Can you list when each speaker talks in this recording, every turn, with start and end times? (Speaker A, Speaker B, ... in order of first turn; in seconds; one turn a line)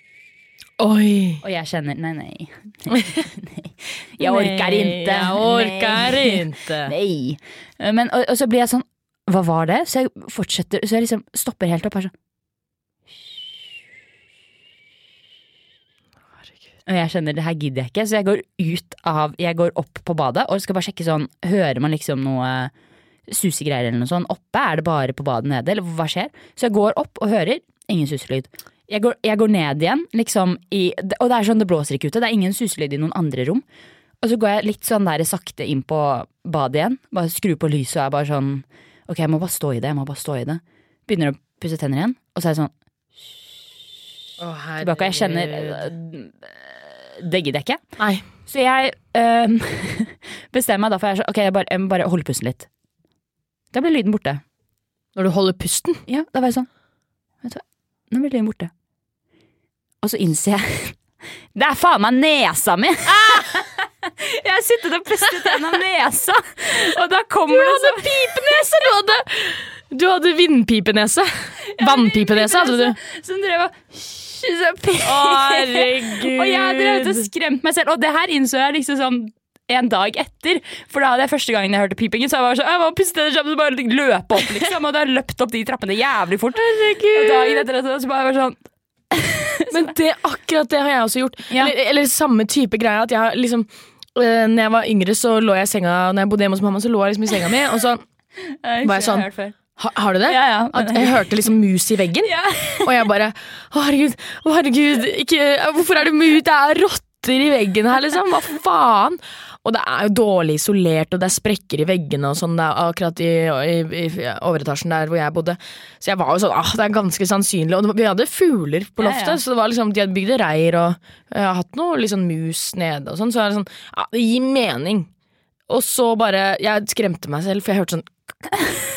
Speaker A: 0.8-1.4
Speaker B: 1.4-12.1
Speaker A: 2.9-3.2
Speaker A: 4.2-6.9
Speaker B: 16.9-22.7
Speaker B: 23.3-33.6
Speaker B: 34.2-43.5
Speaker A: 44.4-45.9
Speaker B: 44.8-47.8
Speaker A: 48.0-48.2
Speaker B: 48.5-52.7
Speaker B: 53.7-54.4
Speaker A: 55.1-56.0
Speaker B: 56.1-56.7
Speaker B: 57.4-58.7
Speaker B: 60.0-61.0
Speaker B: 61.5-68.9
Speaker A: 63.1-63.6
Speaker A: 65.2-65.6
Speaker A: 67.5-73.0
Speaker B: 71.7-89.9
Speaker A: 75.0-77.3
Speaker A: 86.5-87.7
Speaker A: 89.7-98.0
Speaker B: 98.5-99.6
Speaker A: 98.8-125.1
Speaker B: 100.2-101.2
Speaker B: 102.2-102.9
Speaker B: 119.0-119.4
Speaker A: 125.7-128.1